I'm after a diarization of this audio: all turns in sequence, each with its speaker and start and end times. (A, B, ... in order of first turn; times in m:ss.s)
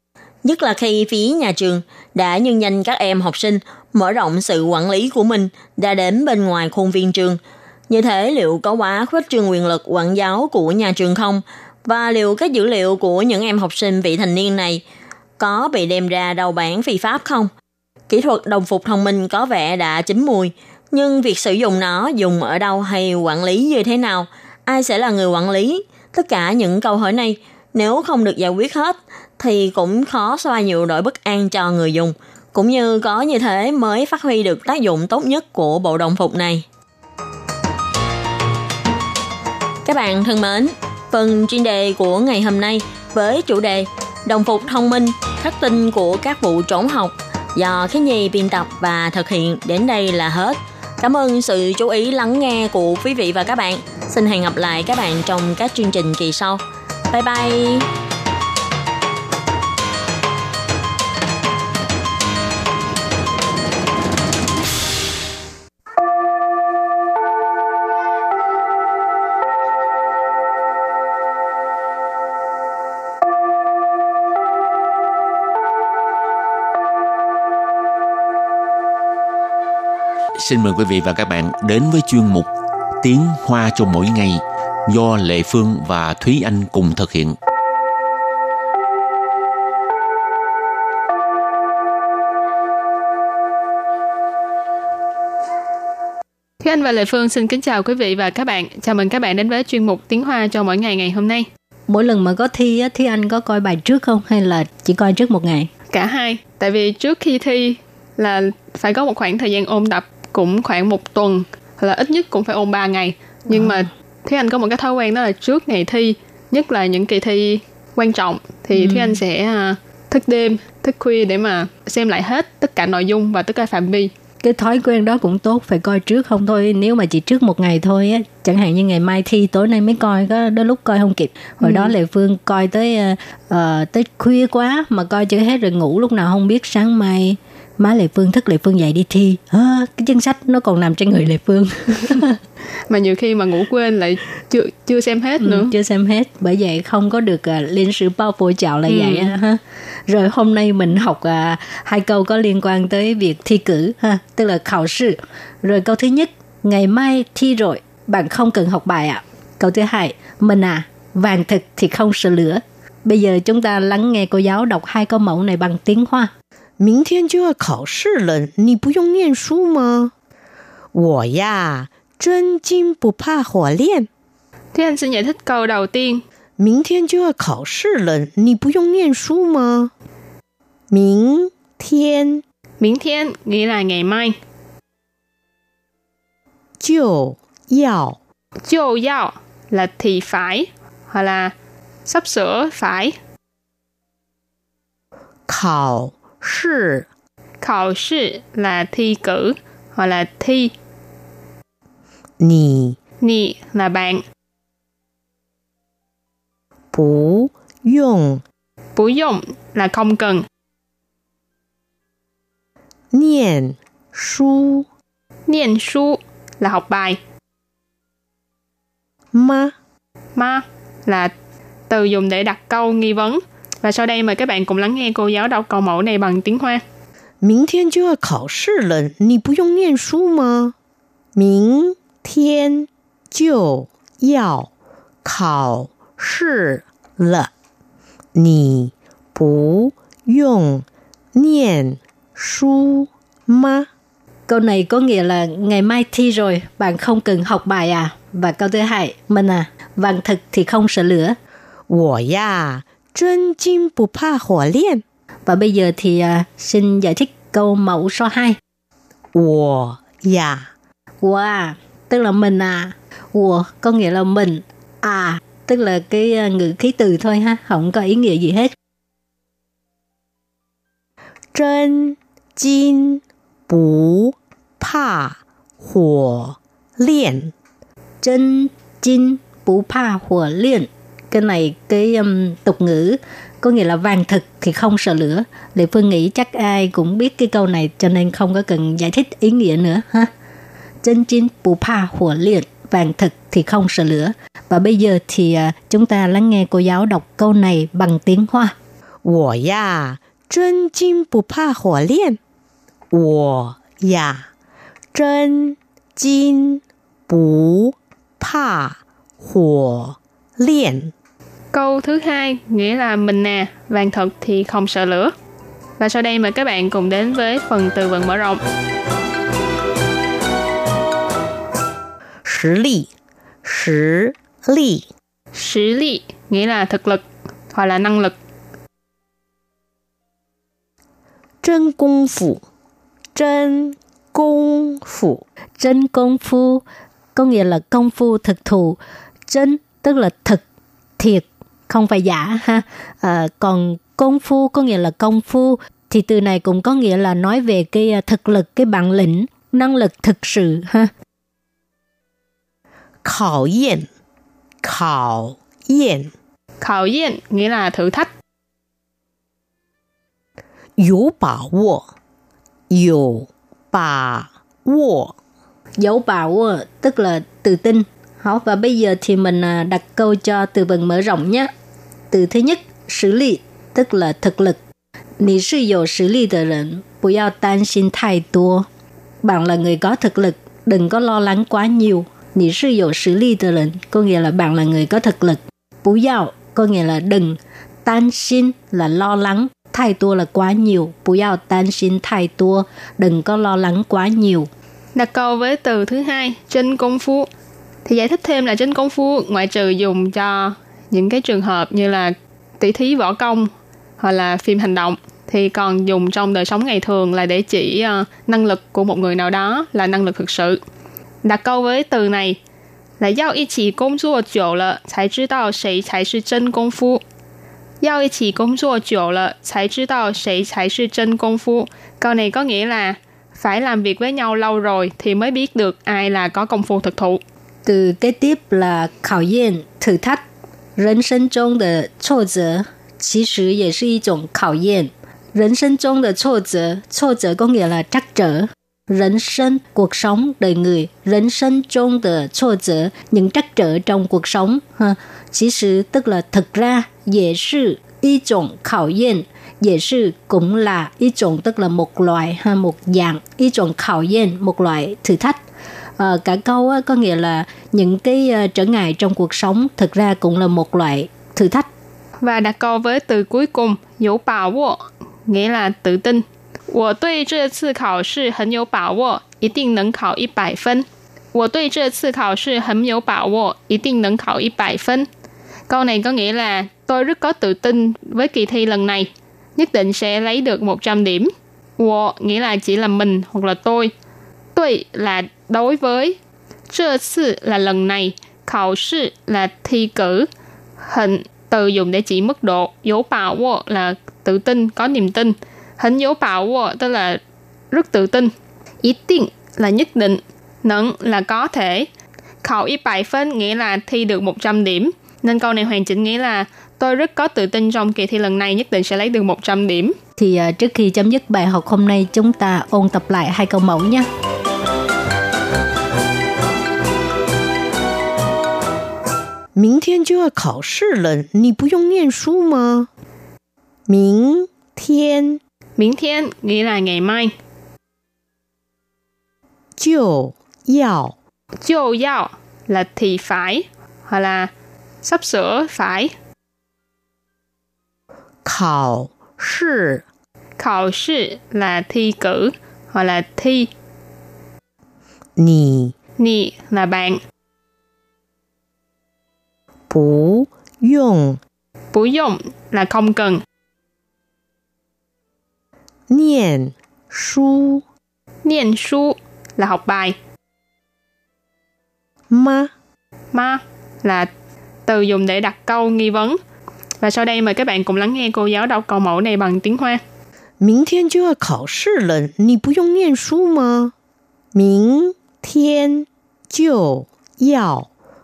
0:00.4-0:14.8 A
0:15.4-0:17.5 A
0:18.1-0:36.6 A
0:39.8-0:57.9 A
1:20.4-1:22.5 B
1:23.0-1:27.4 B
1:36.6-1:41.5 C
1:41.9-1:45.7 D
1:45.9-2:04.1 C
1:58.7-1:59.2 D
2:04.4-2:22.4 D
2:11.6-2:11.9 C
2:22.9-2:25.7 C
2:25.4-2:46.3 D
2:28.9-2:29.3 C
2:46.8-2:50.1 E
2:50.9-2:54.1 E
2:54.7-2:56.2 C
2:56.6-2:59.9 E
3:00.9-3:02.4 E
3:02.8-3:04.4 C
3:06.8-3:08.2 E
3:08.6-3:11.5 C
3:12.1-3:13.1 C
3:15.5-3:17.0 E
3:17.6-3:20.7 C
3:22.4-3:23.0 E
3:23.2-3:24.2 C
3:26.9-3:28.4 E
3:29.0-3:30.4 C
3:33.1-3:34.8 E
3:35.5-3:37.2 C
3:39.3-3:39.7 E
3:40.4-3:41.3 C
3:41.9-3:46.8 C
3:47.4-3:50.7 E
3:51.4-3:54.7 E
3:55.2-3:57.5 E
3:58.4-4:00.8 E
4:01.4-4:03.9 E
4:04.5-4:11.4 D
4:11.9-4:15.0 E
4:15.4-4:18.6 D
4:19.3-4:20.7 E
4:21.2-4:28.7 D
4:31.5-4:37.5 E
4:38.2-4:50.3 D
4:51.0-4:58.7 D
4:59.2-5:02.4 E
5:03.1-5:04.4 E
5:05.1-5:11.1 E
5:11.7-5:15.3 C
5:16.0-5:18.6 C
5:22.4-5:23.1 E
5:23.6-5:25.0 E
5:25.6-5:28.3 C
5:31.6-5:32.6 E
5:33.3-5:35.4 E
5:35.8-5:36.8 D
5:37.3-5:40.6 D
5:41.2-5:51.1 D
5:53.2-5:54.1 E
5:54.8-5:56.3 E
5:56.8-5:58.3 C
6:01.0-6:02.1 E
6:02.9-6:05.3 E
6:06.0-6:11.7 D
6:12.3-6:14.8 D
6:15.4-6:18.9 D
6:19.4-6:34.7 D
6:35.2-6:37.5 C
6:38.0-6:50.8 C
6:51.4-6:52.6 C
6:53.2-6:57.2 C
6:58.0-7:07.4 C
7:07.8-7:10.4 D
7:11.0-7:35.6 D
7:36.2-7:41.9 D
7:42.4-7:55.3 C
7:55.9-8:04.1 C
8:04.7-8:06.4 C
8:06.9-8:10.5 C
8:11.0-8:17.4 C
8:17.9-8:22.1 C
8:22.6-8:30.1 C
8:30.4-8:34.3 D
8:39.8-8:43.1 E
8:44.1-8:45.6 E
8:46.0-8:47.5 C
8:50.0-8:51.3 E
8:51.8-8:54.7 C
8:55.2-8:56.3 C
8:58.6-9:00.2 E
9:00.8-9:03.9 C
9:05.6-9:06.1 E
9:06.4-9:07.4 C
9:10.1-9:11.6 E
9:12.1-9:13.6 C
9:16.3-9:18.0 E
9:18.6-9:20.4 C
9:22.5-9:22.9 E
9:23.5-9:24.5 C
9:25.1-9:26.6 C
9:27.2-9:30.2 C
9:30.8-9:34.1 E
9:34.7-9:38.1 E